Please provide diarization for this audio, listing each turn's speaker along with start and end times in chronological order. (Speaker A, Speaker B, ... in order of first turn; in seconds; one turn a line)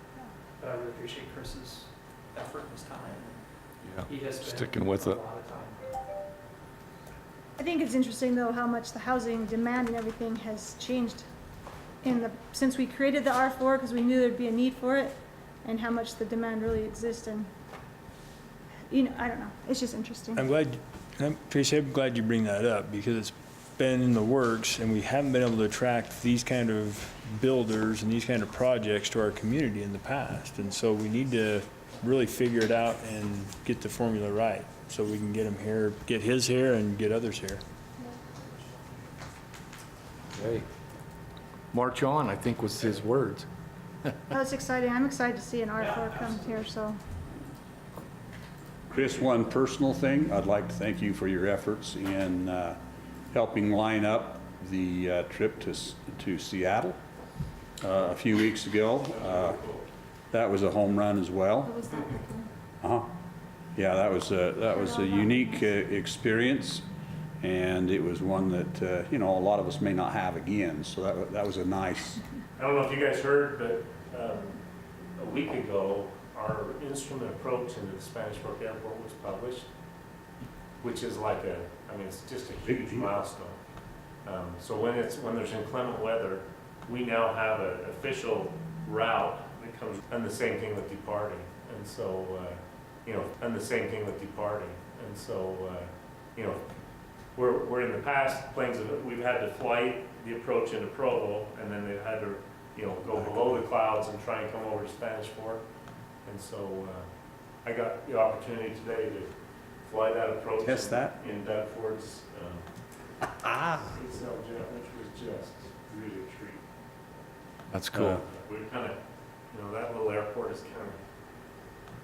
Speaker A: 0.6-3.4
Speaker A: 4.0-5.9
Speaker B: 7.6-11.2
Speaker B: 12.0-17.5
Speaker B: 18.9-20.5
Speaker C: 20.3-37.6
Speaker D: 40.4-40.6
Speaker D: 41.7-43.5
Speaker B: 44.3-47.0
Speaker A: 45.8-46.5
Speaker E: 48.9-52.8
Speaker E: 53.3-57.0
Speaker E: 57.8-59.6
Speaker F: 59.1-59.8
Speaker E: 60.3-61.9
Speaker B: 62.0-62.3
Speaker E: 62.8-63.1
Speaker E: 63.7-66.8
Speaker E: 67.4-72.2
Speaker F: 72.6-74.6
Speaker F: 75.2-79.7
Speaker F: 80.8-83.6
Speaker E: 82.6-83.1
Speaker F: 84.2-96.7
Speaker F: 97.3-105.7
Speaker F: 106.2-107.1
Speaker F: 107.6-112.7
Speaker E: 110.6-111.2
Speaker E: 113.4-113.9
Speaker F: 113.8-116.6
Speaker D: 117.7-118.2
Speaker E: 117.9-118.2
Speaker F: 118.2-121.0